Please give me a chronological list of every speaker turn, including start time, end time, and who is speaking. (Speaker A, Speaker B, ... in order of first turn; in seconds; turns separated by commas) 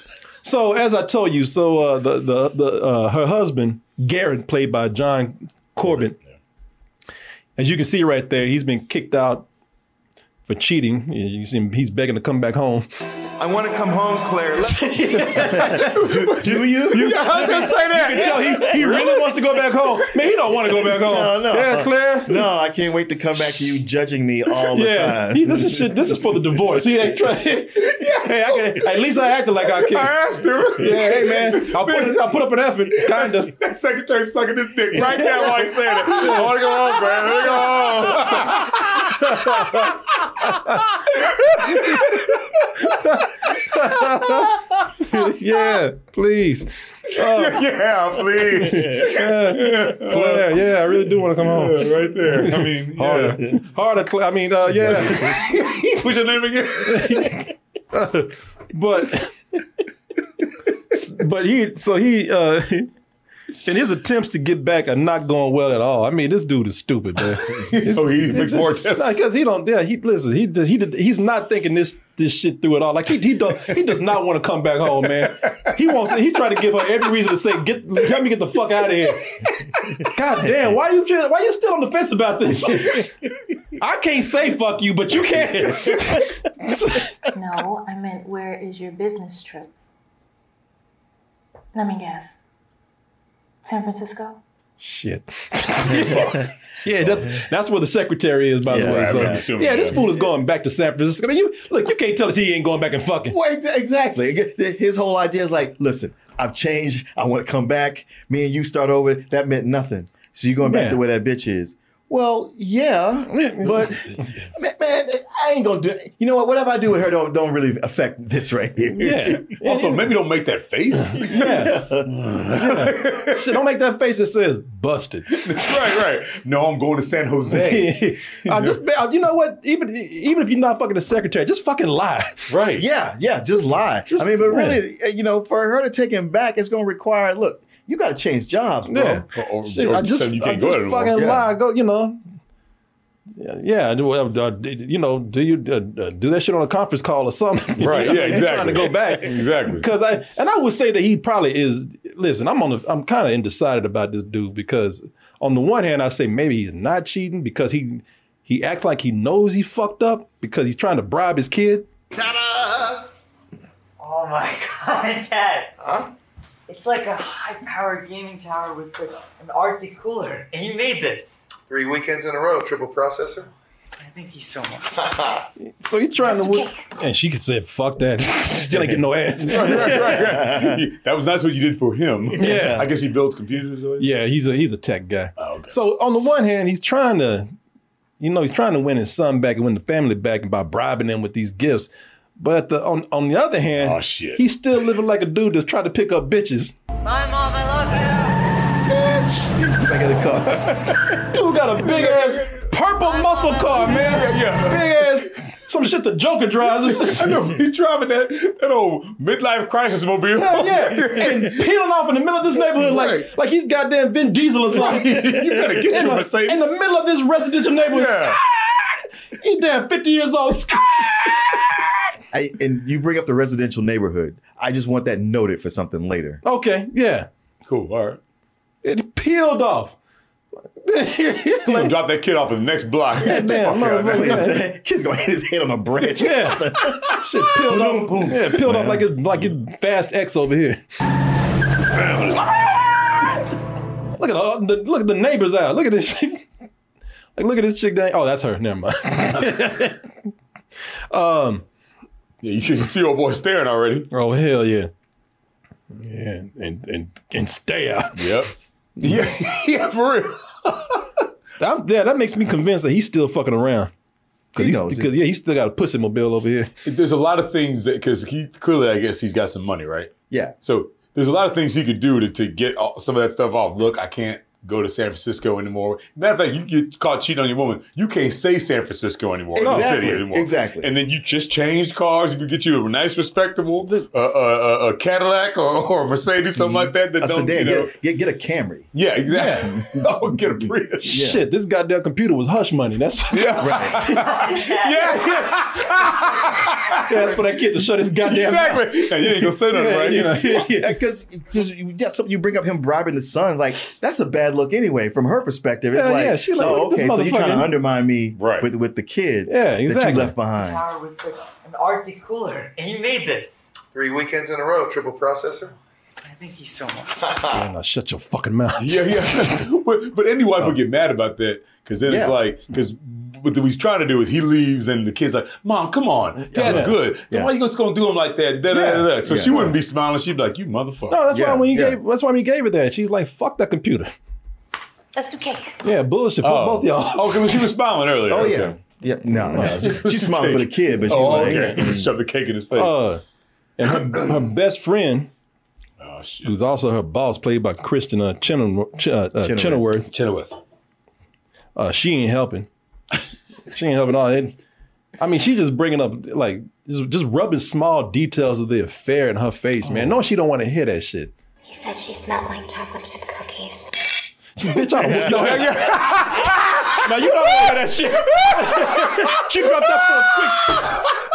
Speaker A: 0.4-6.2, Speaker A: 7.6-9.4, Speaker A: 10.5-12.9, Speaker B: 13.4-15.3, Speaker A: 14.8-16.0, Speaker C: 15.3-17.8, Speaker D: 15.7-20.1, Speaker A: 17.4-22.5, Speaker C: 20.9-26.1, Speaker A: 23.4-23.8, Speaker A: 24.7-30.2, Speaker D: 27.8-29.0, Speaker D: 29.6-32.4, Speaker A: 30.7-33.5, Speaker D: 32.9-39.9, Speaker A: 36.1-36.6, Speaker A: 38.1-41.0, Speaker D: 41.1-42.9, Speaker A: 41.9-42.2, Speaker A: 42.8-47.6, Speaker D: 47.1-53.6, Speaker A: 48.6-55.4, Speaker D: 54.9-57.3, Speaker A: 56.9-59.3, Speaker A: 60.9-62.9, Speaker A: 63.6-83.1, Speaker D: 67.4-69.2, Speaker A: 83.8-87.2, Speaker E: 87.3-89.7, Speaker E: 91.7-92.4, Speaker E: 93.6-94.4, Speaker A: 94.8-103.3, Speaker D: 95.9-96.5, Speaker C: 96.0-96.3, Speaker C: 98.7-100.0, Speaker D: 98.7-100.1, Speaker C: 103.3-119.5, Speaker A: 110.6-111.0, Speaker A: 113.3-113.9, Speaker A: 118.9-120.1, Speaker D: 119.6-123.6, Speaker A: 121.2-121.9, Speaker C: 121.5-122.1, Speaker A: 122.5-125.7, Speaker D: 125.3-128.8, Speaker A: 127.5-132.5, Speaker D: 132.5-132.8, Speaker C: 132.8-139.2, Speaker A: 134.1-134.8, Speaker A: 138.9-142.2, Speaker D: 139.3-141.2, Speaker C: 141.1-141.5, Speaker A: 143.4-161.8, Speaker D: 147.8-149.8, Speaker B: 162.1-163.1, Speaker F: 164.0-165.7, Speaker B: 165.8-166.1, Speaker F: 166.7-171.5, Speaker B: 171.7-173.5, Speaker F: 174.0-175.4, Speaker A: 175.6-180.3, Speaker E: 176.2-176.9, Speaker D: 179.4-184.1, Speaker C: 180.3-180.7, Speaker C: 182.3-182.8, Speaker A: 182.4-182.8, Speaker A: 184.0-187.5, Speaker D: 185.4-185.7, Speaker A: 188.2-196.7, Speaker D: 193.8-194.4, Speaker E: 197.1-197.9, Speaker F: 197.8-198.2, Speaker C: 198.8-200.9, Speaker A: 200.5-207.3, Speaker D: 201.9-202.5, Speaker E: 203.0-204.1, Speaker D: 203.8-205.3, Speaker D: 206.8-211.7, Speaker A: 210.4-221.8, Speaker D: 212.7-213.3, Speaker D: 214.7-216.7, Speaker D: 217.8-218.4, Speaker C: 222.3-226.4, Speaker A: 226.4-227.3, Speaker D: 227.7-228.2, Speaker A: 228.8-229.9, Speaker A: 230.8-231.9, Speaker D: 231.7-234.5, Speaker A: 233.2-234.7, Speaker C: 233.7-239.1, Speaker A: 236.2-240.8, Speaker D: 241.9-242.4, Speaker A: 244.2-246.5, Speaker A: 247.3-250.1, Speaker A: 251.1-251.6, Speaker D: 252.4-254.1, Speaker A: 254.1-254.9, Speaker A: 255.9-258.4, Speaker D: 258.2-261.0, Speaker A: 261.6-263.9, Speaker A: 264.5-266.7, Speaker C: 264.6-265.1, Speaker D: 266.8-287.9, Speaker C: 279.5-280.9, Speaker A: 279.6-280.0, Speaker C: 286.8-288.9, Speaker D: 288.9-291.2, Speaker A: 289.3-289.8, Speaker C: 291.0-291.4, Speaker A: 291.0-294.4, Speaker D: 293.3-297.0, Speaker C: 293.6-294.0, Speaker F: 294.4-294.9, Speaker A: 295.1-295.8, Speaker A: 297.0-300.9, Speaker D: 298.2-300.4, Speaker C: 300.6-310.8, Speaker A: 305.9-307.7, Speaker D: 308.4-308.7, Speaker A: 309.5-310.3, Speaker F: 310.5-313.7, Speaker B: 313.9-315.7, Speaker F: 316.2-317.4, Speaker A: 317.5-319.6, Speaker D: 318.8-331.2, Speaker C: 322.1-322.4, Speaker C: 326.5-327.5, Speaker A: 326.5-326.9, Speaker C: 328.7-329.8, Speaker A: 331.1-334.1, Speaker C: 331.3-332.0, Speaker E: 335.1-335.8, Speaker A: 335.8-337.5, Speaker D: 336.4-338.8, Speaker C: 338.3-342.1, Speaker D: 339.6-343.0, Speaker A: 341.3-341.7, Speaker A: 342.8-343.2, Speaker A: 343.8-345.3, Speaker D: 346.0-346.5, Speaker A: 346.4-350.1, Speaker C: 349.4-349.8, Speaker D: 350.1-350.6, Speaker A: 351.8-352.7, Speaker A: 353.7-354.6, Speaker A: 355.2-361.3, Speaker G: 361.6-363.9, Speaker A: 364.6-371.0, Speaker D: 365.1-371.1